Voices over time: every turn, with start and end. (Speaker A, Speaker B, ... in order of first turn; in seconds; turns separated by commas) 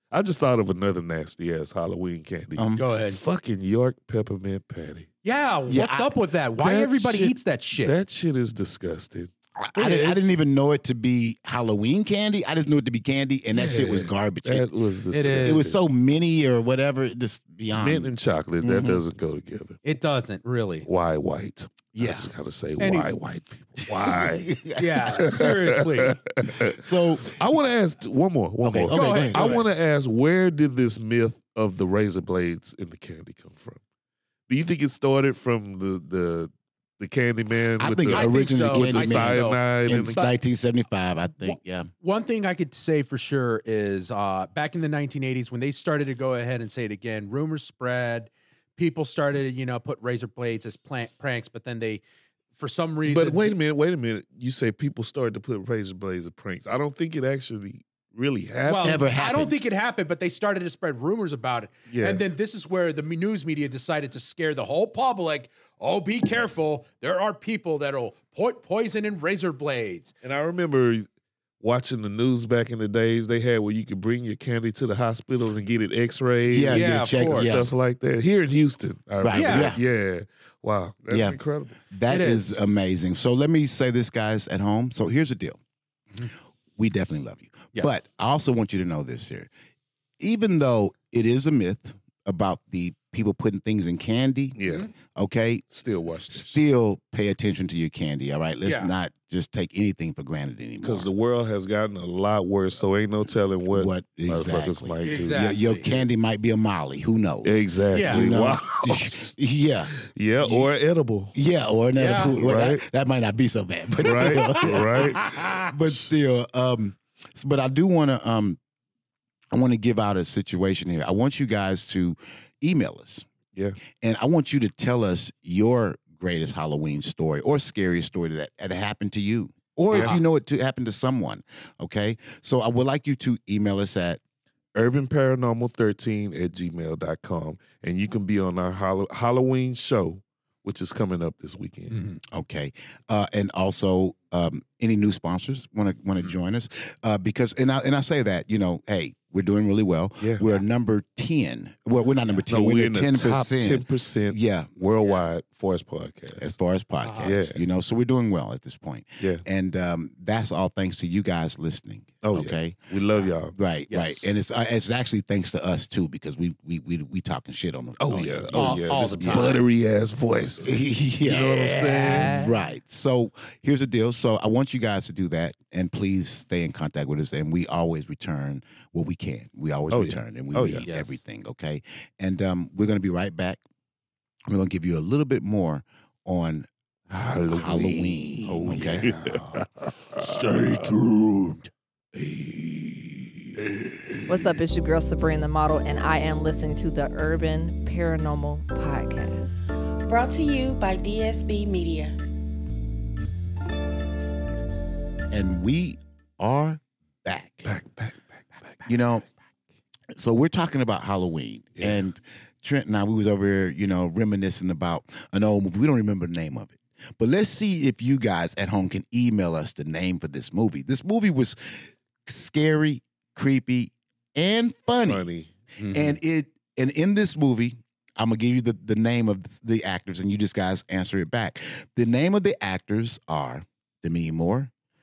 Speaker A: 0.1-5.1, Speaker B: 2.6-2.8, Speaker C: 2.8-3.2, Speaker C: 5.2-8.0, Speaker B: 5.7-6.1, Speaker A: 6.6-9.3, Speaker B: 9.6-14.7, Speaker C: 9.8-10.3, Speaker A: 13.5-15.8, Speaker C: 15.1-15.7, Speaker B: 15.4-19.0, Speaker A: 17.7-19.8, Speaker C: 19.8-20.9, Speaker A: 20.9-33.8, Speaker B: 21.9-22.3, Speaker C: 22.8-23.1, Speaker B: 24.1-25.0, Speaker C: 24.8-26.2, Speaker B: 26.7-27.3, Speaker B: 28.6-29.6, Speaker C: 28.9-29.6, Speaker A: 34.5-40.2, Speaker B: 37.8-41.9, Speaker C: 38.1-40.3, Speaker C: 41.5-52.0, Speaker C: 52.6-53.6, Speaker A: 53.1-59.0, Speaker C: 58.7-70.1, Speaker B: 58.8-59.6, Speaker A: 61.9-62.2, Speaker A: 70.2-71.1, Speaker A: 71.6-81.8, Speaker B: 76.5-77.7, Speaker C: 76.7-77.6, Speaker B: 79.2-79.8, Speaker C: 79.3-79.8, Speaker B: 81.1-81.4, Speaker B: 81.9-85.6, Speaker C: 82.1-82.6, Speaker B: 86.8-89.5, Speaker B: 90.2-95.7, Speaker A: 94.6-94.9, Speaker C: 94.6-94.9, Speaker A: 95.7-96.6, Speaker B: 96.3-101.1, Speaker C: 98.7-98.9, Speaker A: 100.8-105.5, Speaker B: 103.7-110.7, Speaker C: 105.0-105.9, Speaker A: 107.4-109.3, Speaker C: 107.9-108.3, Speaker A: 110.1-111.4, Speaker B: 111.3-118.6, Speaker C: 112.0-112.3, Speaker A: 112.3-112.8, Speaker A: 114.0-115.3, Speaker C: 114.1-115.7, Speaker B: 119.5-123.3, Speaker B: 124.0-134.2, Speaker C: 129.9-130.2, Speaker A: 134.8-142.0, Speaker C: 141.9-142.2, Speaker B: 142.3-154.7, Speaker A: 152.5-156.6, Speaker B: 156.4-162.8, Speaker C: 157.0-157.4, Speaker A: 157.2-157.6, Speaker A: 162.2-163.5, Speaker B: 163.5-169.5, Speaker C: 163.9-164.3, Speaker A: 168.0-172.3, Speaker C: 168.5-169.6, Speaker B: 170.6-183.6, Speaker C: 171.7-172.6, Speaker A: 179.9-180.9, Speaker C: 180.8-181.2, Speaker B: 184.5-186.7, Speaker A: 187.1-191.6, Speaker B: 187.2-189.6, Speaker B: 190.2-190.9, Speaker A: 192.2-194.6, Speaker D: 194.3-199.6, Speaker E: 200.1-202.2, Speaker B: 205.3-207.7, Speaker A: 207.7-208.2, Speaker B: 208.9-209.3, Speaker B: 210.1-225.3, Speaker A: 211.8-212.0, Speaker A: 225.1-225.5, Speaker C: 225.8-226.2, Speaker B: 225.9-234.7